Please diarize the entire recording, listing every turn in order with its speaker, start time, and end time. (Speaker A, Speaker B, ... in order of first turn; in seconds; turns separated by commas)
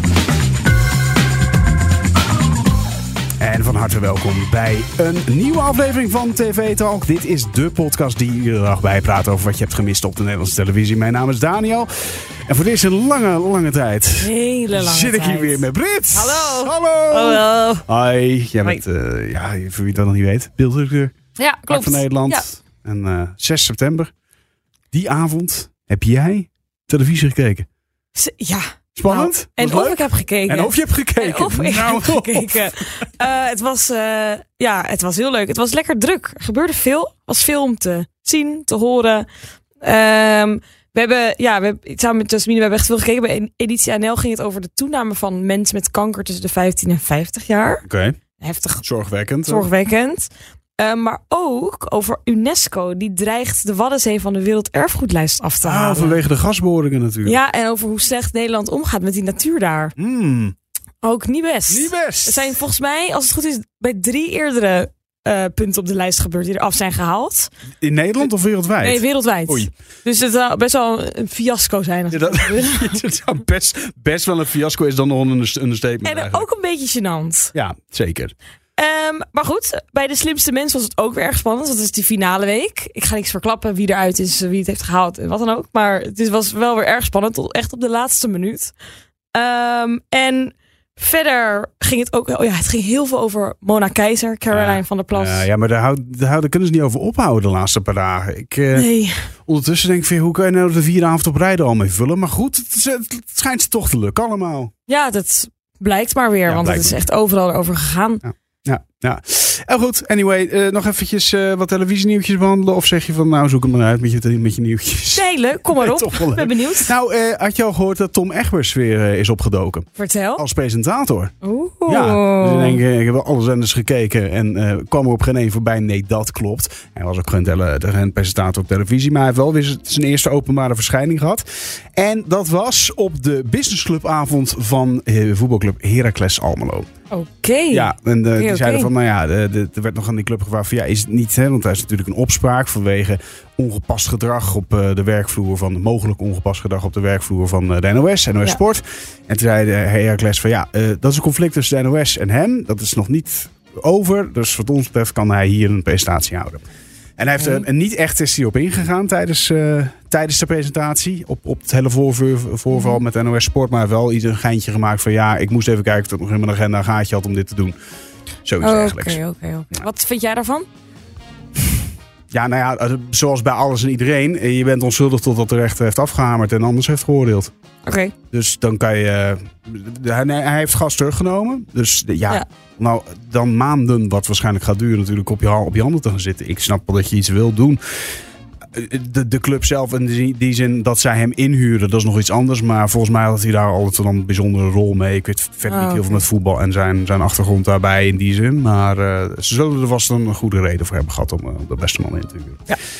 Speaker A: 3.4-11.9, Speaker A: 12.4-21.1, Speaker B: 14.2-17.9, Speaker B: 21.4-22.4, Speaker A: 21.7-24.1, Speaker A: 24.9-27.7, Speaker B: 28.1-39.2, Speaker A: 28.9-32.6, Speaker B: 39.8-47.8, Speaker A: 47.8-48.2, Speaker B: 48.4-48.8, Speaker A: 48.8-49.7, Speaker B: 49.4-56.2, Speaker A: 55.6-57.4, Speaker B: 57.2-59.9, Speaker A: 60.0-60.5, Speaker B: 61.0-67.5, Speaker A: 61.7-62.5, Speaker A: 67.8-69.7, Speaker B: 68.8-73.0, Speaker A: 72.1-76.4, Speaker B: 76.0-77.5, Speaker A: 77.5-78.3, Speaker B: 78.8-88.7, Speaker B: 89.3-95.5, Speaker A: 94.5-98.9, Speaker B: 98.7-99.2, Speaker A: 99.5-104.7, Speaker B: 104.9-108.2, Speaker A: 106.5-107.0, Speaker A: 108.2-121.3, Speaker B: 115.1-116.9, Speaker B: 120.0-120.4, Speaker B: 121.4-122.8, Speaker A: 121.8-136.9, Speaker B: 137.1-138.9, Speaker A: 137.7-156.6, Speaker A: 157.2-167.8, Speaker B: 157.4-157.6, Speaker B: 162.7-163.0, Speaker A: 168.4-169.2, Speaker B: 168.6-170.7, Speaker A: 172.3-177.5, Speaker B: 177.8-178.1, Speaker A: 178.3-187.8, Speaker A: 188.7-202.7, Speaker B: 195.7-196.2